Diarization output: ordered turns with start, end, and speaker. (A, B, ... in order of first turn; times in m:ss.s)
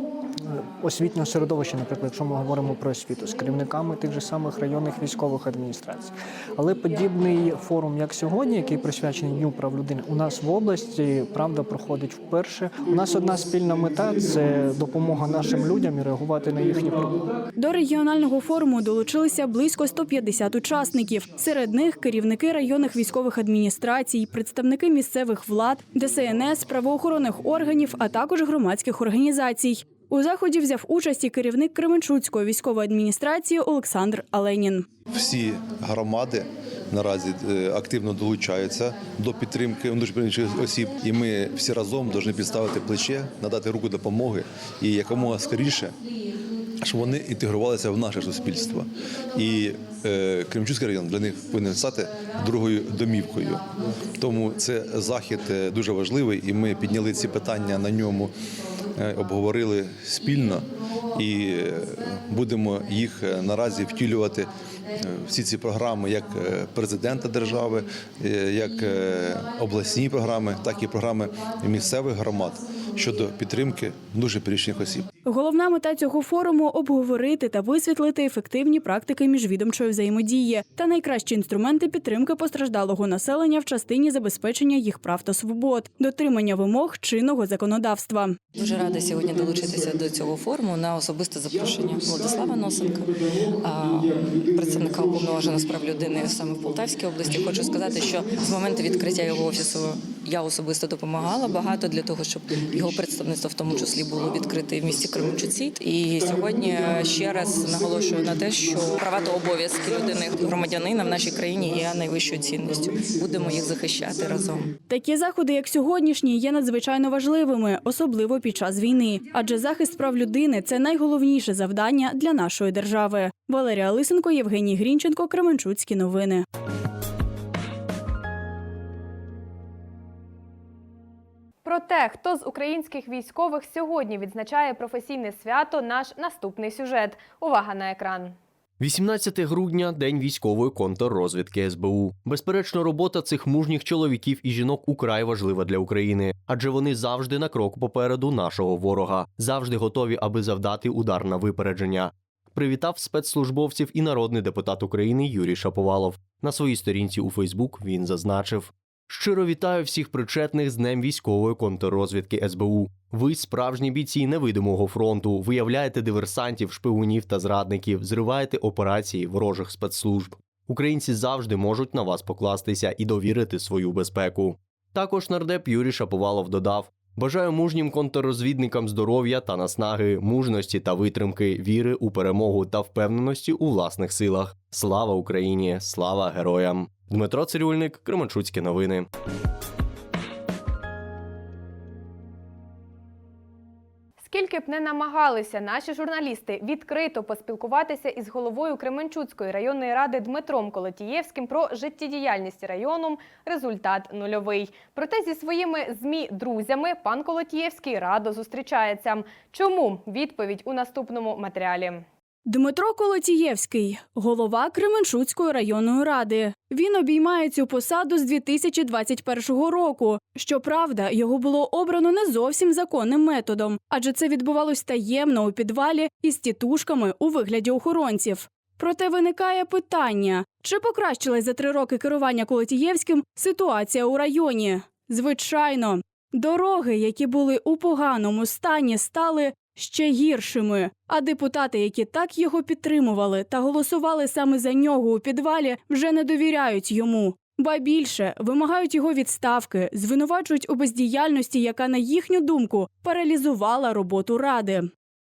0:00.4-0:17.3 A
0:17.6-0:34.9 B
0:35.1-0:46.0 C
0:46.8-0:58.3 C
0:59.0-1:15.1 C
1:15.2-1:28.4 B
1:28.5-1:54.7 D
1:54.9-2:06.4 B
2:11.6-2:18.4 E
2:18.8-3:09.1 F
3:14.2-3:32.0 E
3:32.5-4:14.9 B